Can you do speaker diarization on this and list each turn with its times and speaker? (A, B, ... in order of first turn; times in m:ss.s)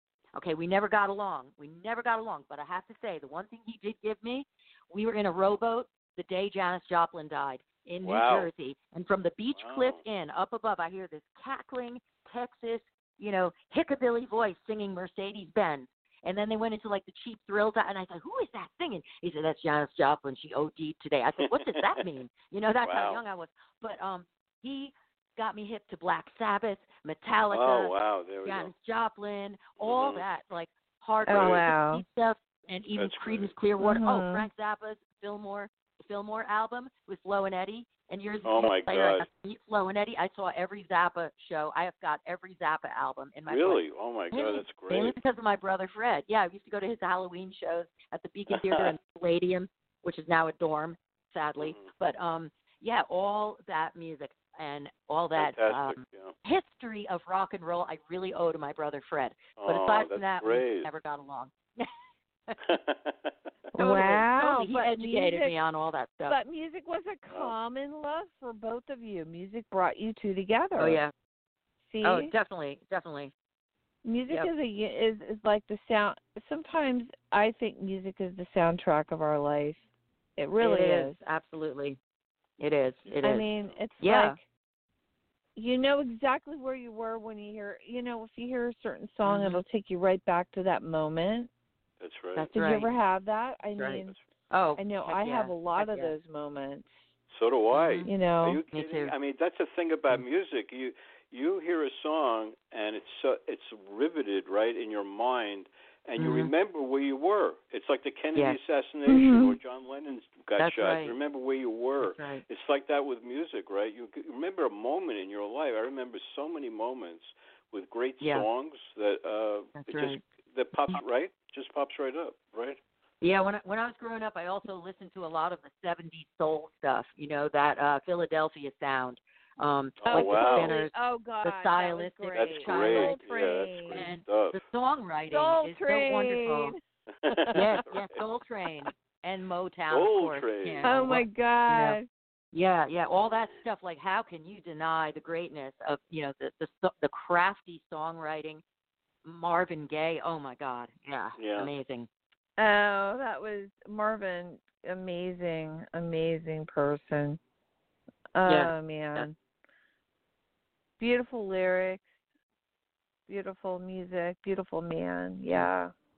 0:00.3-0:27.9 A
0:08.0-0:08.5 B
0:09.6-0:10.0 B
0:21.4-0:22.0 B
0:22.8-0:23.2 B
0:27.5-0:28.7 B
0:28.4-1:01.9 A
0:29.8-0:30.2 B
0:31.2-0:31.7 B
0:31.3-0:32.0 C
0:32.9-0:33.5 B
0:33.8-0:34.4 C
0:38.4-0:39.2 B
0:43.5-0:45.2 B
0:48.5-0:48.9 B
0:51.6-0:51.9 B
0:55.4-0:56.3 B
0:59.6-1:00.9 B
1:02.6-1:03.3 B
1:03.7-1:06.4 A
1:03.7-1:05.5 C
1:06.3-1:11.0 C
1:10.8-1:11.1 A
1:11.9-1:12.3 C
1:12.0-1:13.3 A
1:14.0-1:19.8 C
1:20.4-1:21.2 C
1:20.6-1:22.0 A
1:22.6-1:23.5 A
1:23.0-1:23.6 B
1:23.2-1:24.4 C
1:24.0-1:24.4 A
1:25.6-1:31.5 C
1:29.2-1:29.6 A
1:32.0-1:32.5 B
1:32.4-1:32.9 A
1:32.5-1:34.2 C
1:33.8-1:36.1 A
1:34.8-1:37.0 C
1:37.3-2:02.8 B
1:37.7-1:38.1 A
1:38.1-1:38.6 C
1:38.7-1:39.1 A
1:46.2-1:46.5 A
1:49.1-1:49.6 C
1:50.6-1:51.1 A
1:52.0-1:52.4 A
1:58.2-1:58.5 A
1:59.8-2:00.2 A
2:03.2-2:13.2 A
2:10.0-2:10.8 B
2:10.1-2:14.1 C
2:12.3-2:14.6 B
2:13.9-2:16.7 A
2:15.3-2:17.6 C
2:17.2-2:18.2 B
2:17.5-2:22.0 A
2:19.9-2:21.0 B
2:20.8-2:22.1 C
2:22.5-2:28.6 A
2:29.2-2:32.1 A
2:31.4-2:31.7 B
2:32.6-2:37.4 C
2:38.4-2:39.4 C
2:38.4-2:39.3 A
2:41.0-2:42.0 C
2:43.3-2:45.9 C